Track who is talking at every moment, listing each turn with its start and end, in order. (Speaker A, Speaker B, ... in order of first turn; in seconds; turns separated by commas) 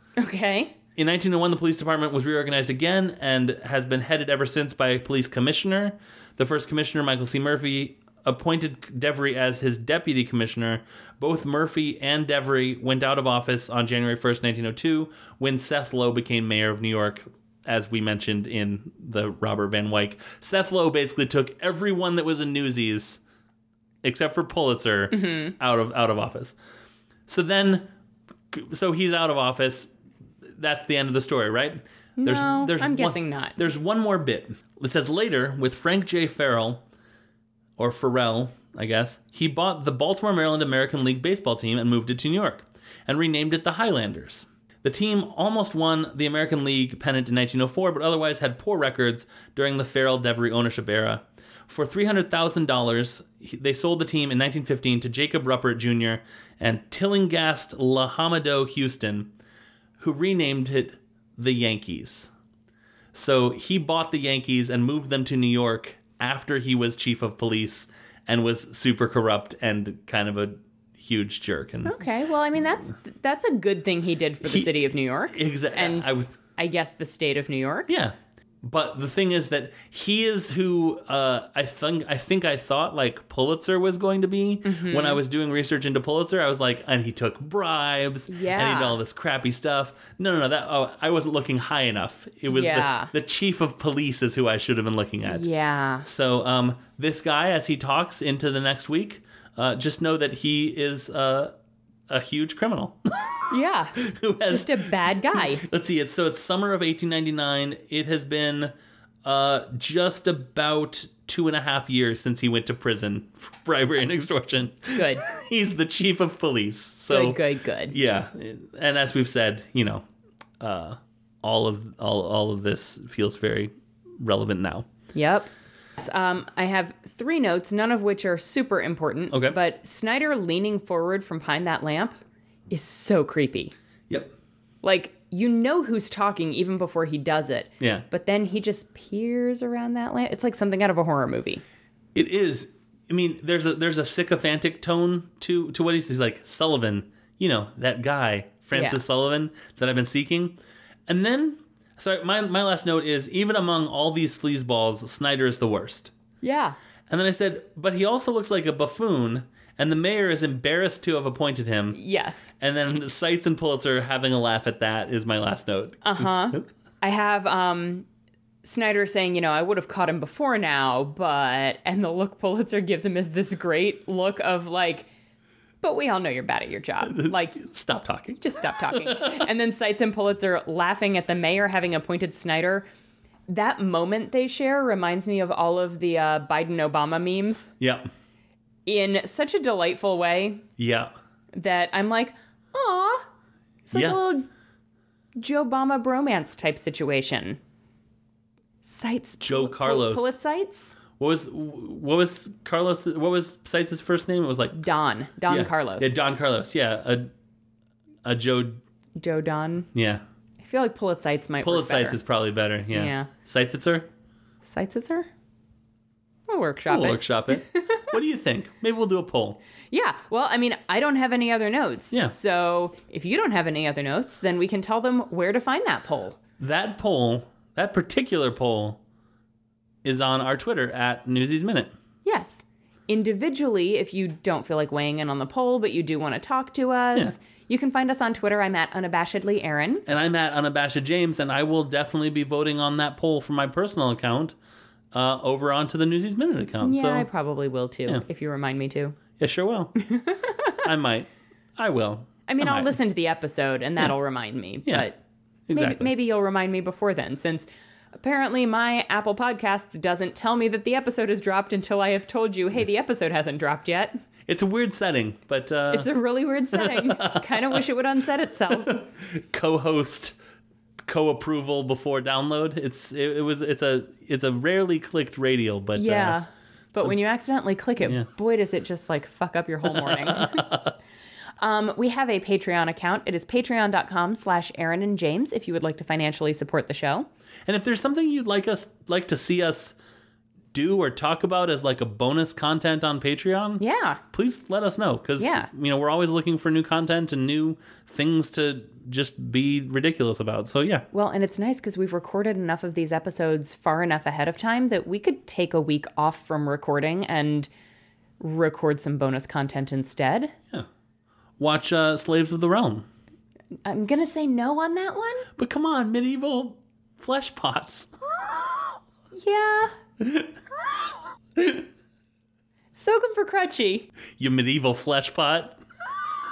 Speaker A: 0.2-0.7, Speaker B: 1.0-23.2, Speaker B: 24.0-26.6, Speaker A: 25.1-25.5, Speaker B: 27.3-27.9, Speaker B: 28.5-29.9, Speaker B: 30.6-36.8, Speaker A: 32.2-33.6, Speaker B: 37.8-59.3, Speaker B: 60.0-62.3, Speaker B: 63.1-72.0, Speaker A: 71.8-77.9, Speaker B: 74.4-74.8, Speaker B: 75.3-76.4, Speaker B: 77.9-95.5, Speaker A: 84.7-85.2, Speaker A: 88.3-89.0, Speaker A: 92.5-93.1, Speaker A: 95.3-96.1, Speaker B: 96.0-101.5, Speaker B: 102.1-103.5, Speaker A: 103.5-105.7, Speaker B: 104.0-108.7, Speaker B: 109.2-120.0, Speaker A: 114.9-115.2, Speaker A: 117.1-118.0, Speaker B: 120.6-124.8, Speaker A: 125.1-132.2, Speaker B: 129.3-129.6, Speaker A: 132.7-133.7, Speaker A: 134.8-141.6, Speaker B: 137.8-138.1, Speaker B: 142.2-150.6, Speaker A: 148.7-149.0, Speaker B: 151.1-156.1, Speaker A: 156.4-156.8, Speaker B: 157.1-162.0, Speaker A: 161.9-162.5, Speaker B: 162.6-166.6, Speaker A: 166.0-168.1, Speaker A: 168.6-175.1, Speaker A: 175.8-177.6, Speaker B: 177.1-179.5, Speaker A: 178.4-182.9, Speaker A: 183.5-187.7, Speaker B: 187.8-188.1, Speaker A: 188.9-190.6, Speaker B: 190.8-191.1, Speaker A: 191.6-193.2, Speaker A: 193.9-194.5, Speaker B: 193.9-194.2, Speaker A: 195.4-197.6, Speaker A: 198.8-201.0, Speaker B: 199.4-200.4, Speaker B: 201.2-204.9, Speaker A: 204.7-206.2, Speaker B: 205.5-207.3, Speaker B: 208.2-208.8, Speaker A: 209.2-209.9, Speaker B: 209.9-210.2, Speaker A: 210.6-212.2, Speaker B: 211.6-214.1, Speaker A: 212.9-213.3, Speaker A: 214.6-215.3, Speaker A: 216.5-218.0, Speaker B: 216.9-219.6, Speaker A: 219.9-226.4, Speaker B: 226.6-229.0, Speaker B: 230.0-231.9, Speaker A: 232.2-240.1, Speaker B: 240.1-244.6, Speaker B: 245.1-247.3, Speaker A: 246.8-249.2, Speaker B: 249.4-250.1, Speaker A: 250.1-250.8, Speaker B: 250.8-253.0, Speaker A: 252.5-255.2, Speaker B: 255.7-256.1, Speaker A: 255.7-264.1, Speaker B: 264.5-266.1, Speaker A: 265.9-269.0, Speaker B: 266.7-267.8, Speaker B: 268.7-270.4, Speaker B: 271.1-276.4, Speaker A: 276.0-280.8, Speaker B: 279.9-280.9, Speaker A: 281.6-287.3, Speaker B: 287.7-290.0, Speaker B: 290.7-301.1, Speaker A: 293.8-294.2, Speaker A: 295.4-295.7, Speaker A: 301.1-307.7, Speaker A: 308.4-310.5, Speaker B: 311.6-313.1, Speaker A: 313.9-315.5, Speaker B: 315.6-318.1, Speaker A: 319.4-319.9, Speaker B: 320.2-320.5, Speaker B: 321.6-321.9, Speaker A: 322.9-324.1, Speaker B: 324.4-325.8